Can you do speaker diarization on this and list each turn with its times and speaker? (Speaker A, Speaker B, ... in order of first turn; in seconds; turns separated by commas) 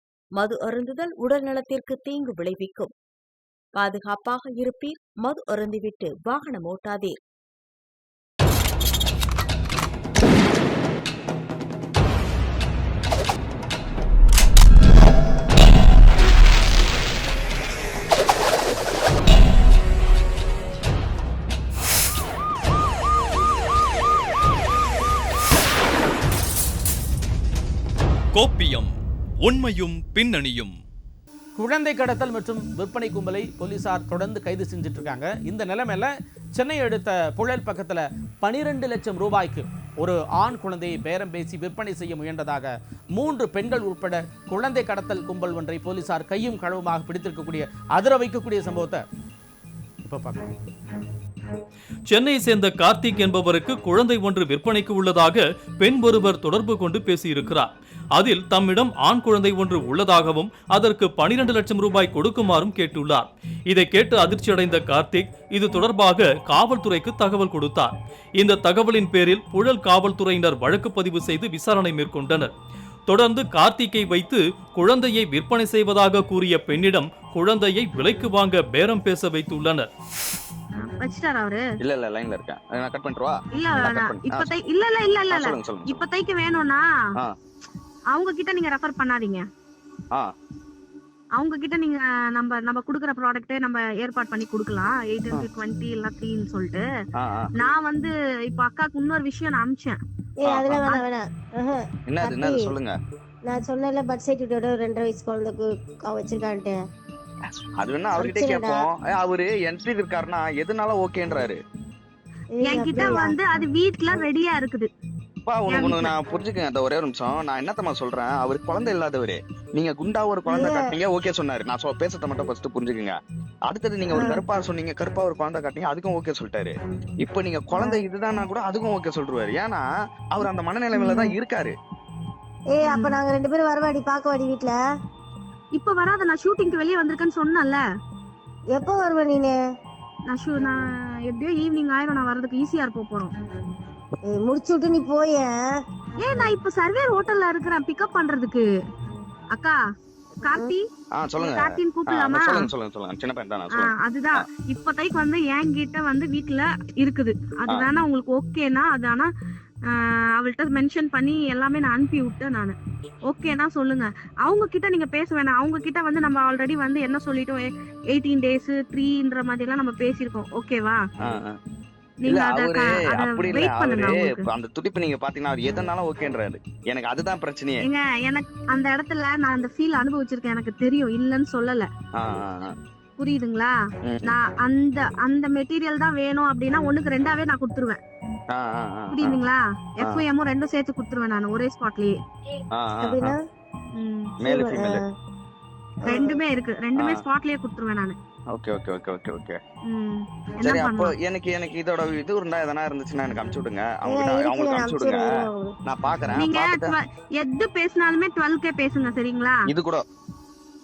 Speaker A: 0.3-2.9, Speaker A: 3.7-7.2, Speaker B: 28.3-30.8, Speaker C: 31.6-49.0, Speaker C: 50.0-50.5, Speaker B: 52.1-72.5, Speaker B: 73.1-79.9, Speaker D: 80.8-81.6, Speaker E: 81.8-84.5, Speaker D: 83.5-86.8, Speaker E: 85.3-86.0, Speaker D: 88.1-89.4, Speaker D: 91.3-96.8, Speaker E: 97.2-97.5, Speaker D: 97.6-100.0, Speaker F: 100.4-102.7, Speaker E: 100.5-100.9, Speaker E: 102.1-102.9, Speaker F: 103.5-106.8, Speaker E: 107.8-111.6, Speaker F: 108.2-108.9, Speaker F: 112.6-113.4, Speaker D: 112.6-114.9, Speaker E: 115.5-123.1, Speaker D: 115.7-116.1, Speaker F: 120.5-120.9, Speaker E: 123.7-131.7, Speaker F: 124.1-124.4, Speaker F: 127.8-128.0, Speaker D: 130.9-131.3, Speaker F: 132.7-134.7, Speaker D: 132.8-133.2, Speaker D: 135.7-137.8, Speaker F: 138.7-139.5, Speaker D: 140.3-143.3, Speaker F: 144.3-145.5, Speaker D: 146.2-148.6, Speaker D: 150.4-150.8, Speaker F: 150.5-150.7, Speaker E: 151.1-153.9, Speaker D: 151.4-152.7, Speaker D: 153.8-159.3, Speaker D: 159.9-162.7, Speaker D: 163.3-171.0, Speaker E: 171.2-171.6, Speaker D: 172.2-174.4, Speaker E: 172.2-177.8, Speaker D: 177.8-181.9, Speaker E: 182.2-182.7, Speaker D: 183.2-183.7, Speaker E: 184.1-184.3, Speaker D: 184.2-188.0, Speaker E: 188.5-189.4, Speaker D: 189.1-192.1, Speaker E: 192.7-193.3, Speaker F: 193.0-193.4, Speaker D: 193.9-194.3, Speaker E: 194.4-195.0, Speaker F: 194.4-195.1, Speaker F: 196.1-196.3, Speaker D: 196.1-198.2, Speaker E: 198.5-199.6, Speaker D: 199.9-201.1, Speaker E: 200.6-205.3, Speaker F: 204.1-205.7, Speaker E: 205.8-206.9, Speaker D: 206.3-209.6, Speaker E: 209.7-210.0